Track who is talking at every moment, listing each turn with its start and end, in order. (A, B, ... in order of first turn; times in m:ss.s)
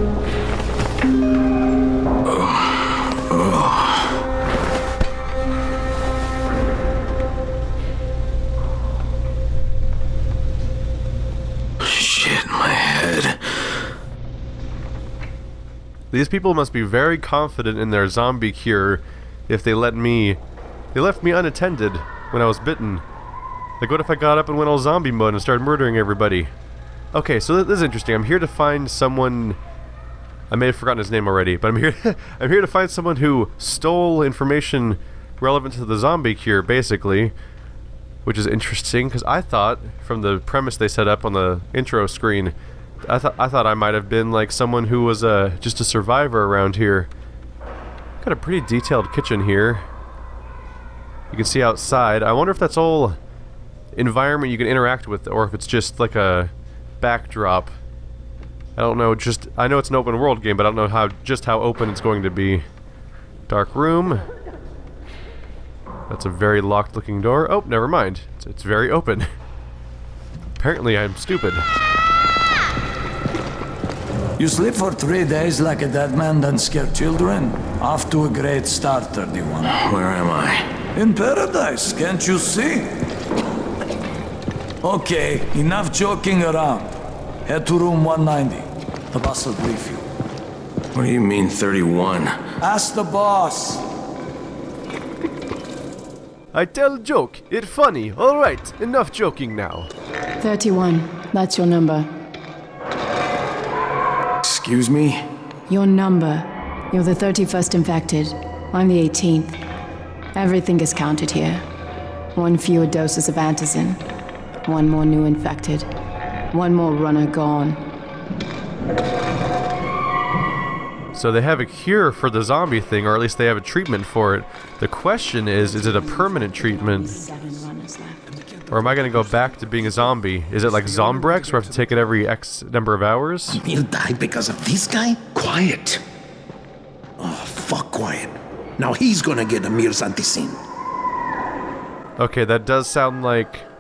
0:02.3-0:04.1 A
0:11.8-0:13.5 A
0:16.1-0:20.4 B
0:20.9-0:23.0 B
0:23.8-0:26.5 B
0:27.1-0:29.6 B
0:30.5-0:37.3 B
0:38.2-0:42.5 B
0:43.0-0:47.1 B
0:48.2-0:49.8 B
0:51.3-0:53.2 B
0:54.0-0:57.7 B
0:58.8-1:02.7 B
1:03.5-1:04.2 B
1:06.1-1:09.3 B
1:10.6-1:11.7 B
1:14.4-1:19.8 C
1:19.8-1:20.7 A
1:21.0-1:22.9 C
1:24.8-1:27.0 C
1:27.5-1:30.0 C
1:30.9-1:32.4 A
1:32.6-1:33.8 C
1:36.5-1:39.9 B
1:40.4-1:42.1 D
1:44.4-1:45.2 A
1:45.7-1:49.6 D
1:50.3-1:51.6 D
1:52.3-1:54.0 D
1:54.6-1:55.9 D
1:56.5-1:57.8 D
2:01.1-2:07.2 B
2:05.8-2:08.2 D
2:08.7-2:13.6 B
2:13.5-2:16.0 E
2:17.2-2:20.6 E
2:22.2-2:23.7 B